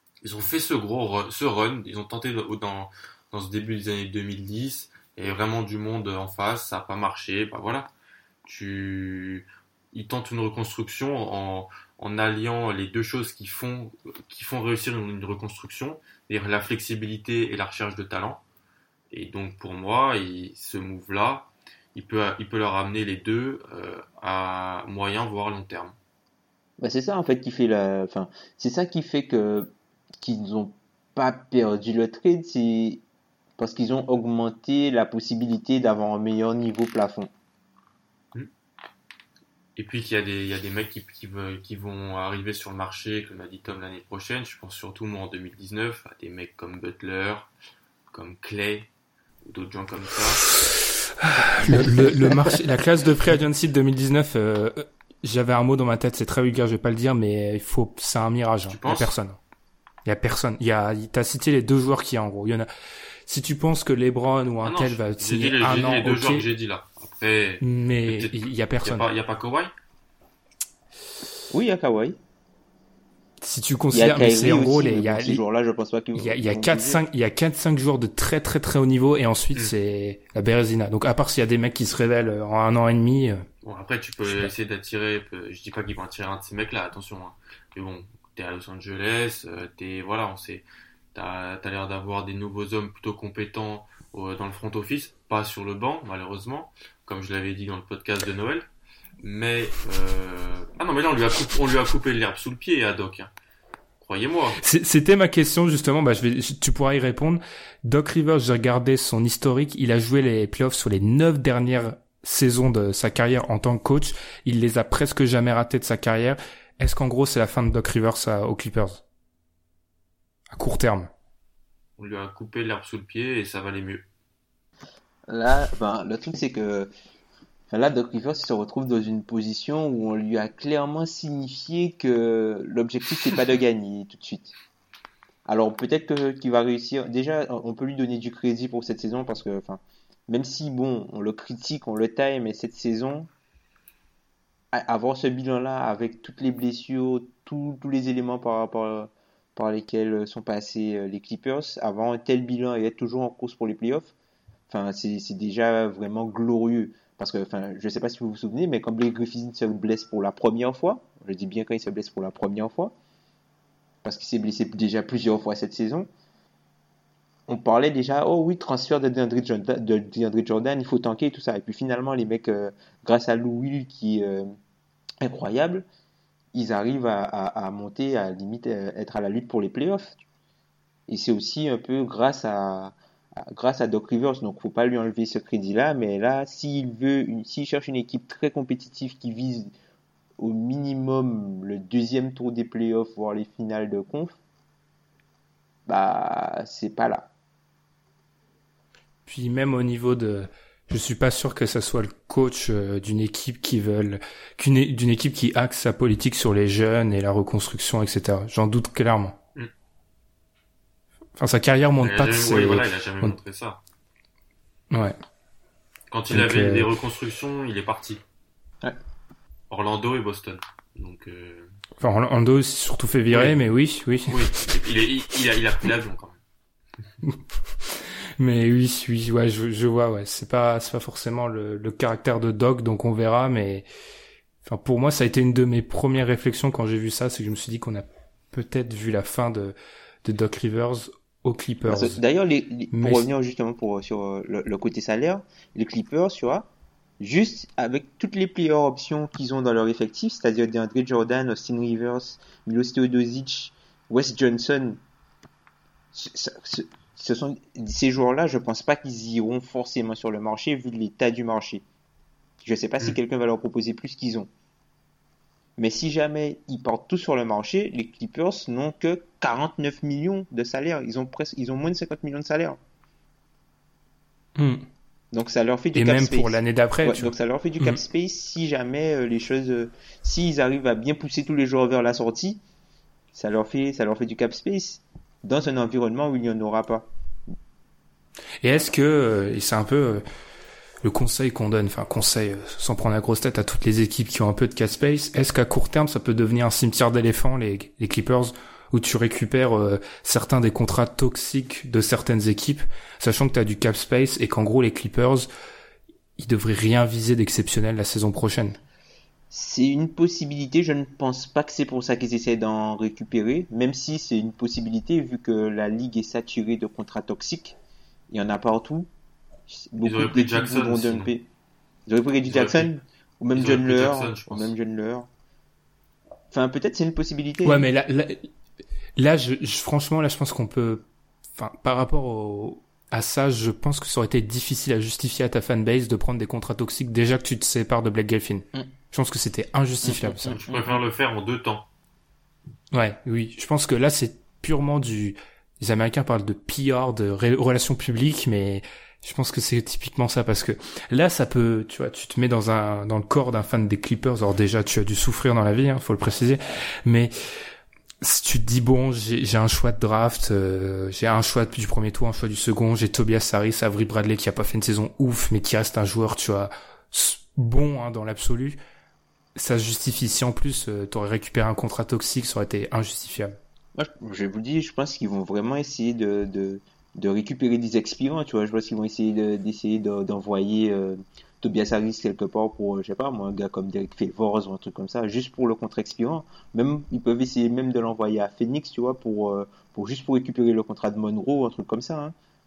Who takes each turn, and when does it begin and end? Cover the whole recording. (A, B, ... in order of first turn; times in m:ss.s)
0:00.2-0:07.9 A
0:08.4-0:18.4 A
0:19.1-0:26.0 A
0:26.8-0:33.0 B
0:33.6-0:37.3 B
0:39.8-0:47.5 A
0:48.1-0:48.9 A
0:49.4-0:50.5 A
0:51.2-0:59.4 C
0:58.7-0:59.2 A
1:00.1-1:02.7 C
1:03.3-1:06.5 C
1:04.6-1:09.7 A
1:07.6-1:09.1 C
1:11.5-1:12.2 B
1:13.4-1:15.4 C
1:13.9-1:17.0 B
1:16.2-1:23.4 C
1:23.6-1:38.7 A
1:24.2-1:24.5 C
1:39.2-1:43.3 A
1:44.0-1:44.6 A
1:44.6-1:59.0 C
2:00.5-2:01.1 C
2:02.0-2:04.0 A
2:05.3-2:06.9 B
2:07.7-2:14.5 B
2:15.5-2:23.3 B
2:24.7-2:34.1 B
2:34.7-2:42.9 B
2:44.0-2:46.1 B
2:47.5-2:54.5 B
2:55.2-2:55.9 B
2:56.5-3:00.2 B
3:01.1-3:09.7 B
3:10.4-3:14.4 B
3:15.9-3:17.3 B
3:19.3-3:29.4 C
3:31.4-3:33.4 C
3:32.0-3:33.8 A
3:34.9-3:35.2 C
3:36.1-3:38.2 A
3:36.3-3:36.9 C
3:39.7-3:41.7 A
3:42.0-3:44.4 C
3:43.3-3:43.6 A
3:44.3-3:46.4 A
3:48.4-3:53.9 C
3:54.6-4:02.2 C
4:01.9-4:06.7 B
4:02.9-4:03.3 C
4:07.2-4:15.0 B
4:16.1-4:21.8 B
4:22.6-4:24.5 B
4:25.8-4:32.8 B
4:34.6-4:34.8 C
4:35.3-4:42.6 B
4:35.9-4:38.0 C
4:43.3-4:47.1 B
4:48.6-4:50.2 C
4:51.0-5:05.5 C
5:06.4-5:08.8 C
5:09.5-5:17.8 B
5:18.3-5:19.1 B
5:19.7-5:21.5 B
5:20.0-5:21.3 A
5:22.1-5:25.3 B
5:22.5-5:22.9 A
5:23.5-5:24.7 A
5:26.5-5:27.8 B
5:27.6-5:28.5 C
5:29.2-5:31.0 C
5:31.6-5:40.6 C
5:40.0-5:41.0 B
5:40.5-5:41.9 A
5:42.9-5:57.3 C
5:58.2-6:08.8 C
6:09.6-6:13.6 C
6:14.0-6:32.4 B